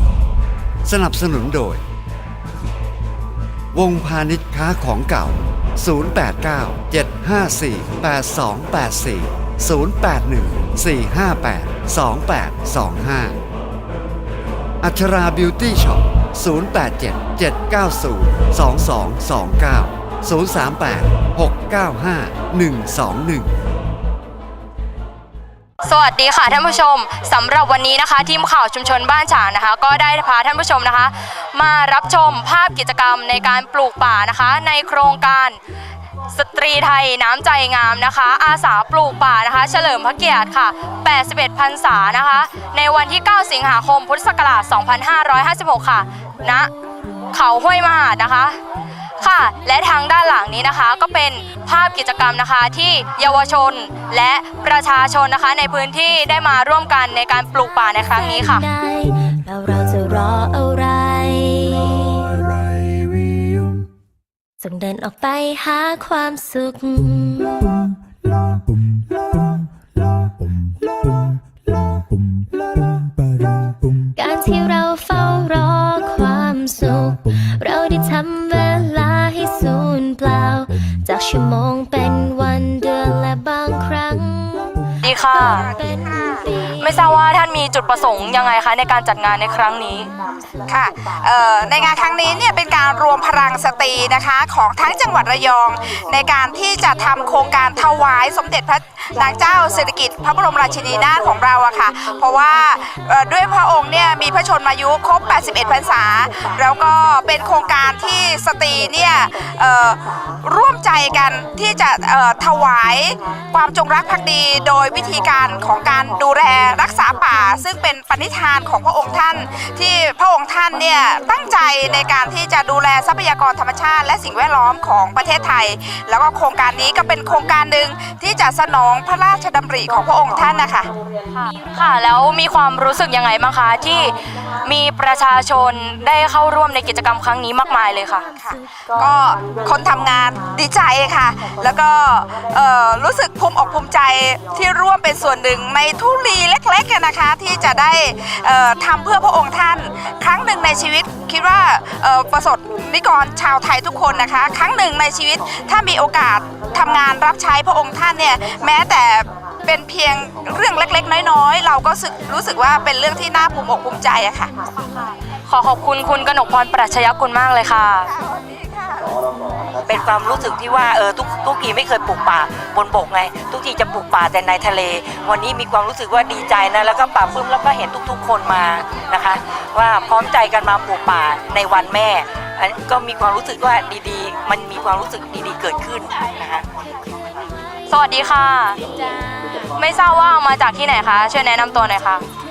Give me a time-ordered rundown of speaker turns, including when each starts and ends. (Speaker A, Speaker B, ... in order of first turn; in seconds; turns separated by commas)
Speaker A: 0.8-1.8, Speaker A: 3.7-13.4, Speaker A: 14.8-23.5, Speaker B: 25.8-35.6, Speaker B: 36.3-46.7, Speaker B: 47.3-48.6, Speaker B: 49.2-58.6, Speaker C: 58.1-62.7, Speaker C: 64.6-67.8, Speaker C: 74.1-87.1, Speaker B: 85.0-85.7, Speaker D: 85.4-86.1, Speaker B: 86.8-90.1, Speaker D: 90.7-130.9, Speaker B: 131.3-138.3, Speaker C: 137.9-138.2, Speaker D: 138.3-164.5, Speaker B: 165.5-168.1, Speaker D: 168.2-168.8, Speaker E: 169.9-186.7, Speaker B: 187.9-188.8, Speaker B: 189.7-192.2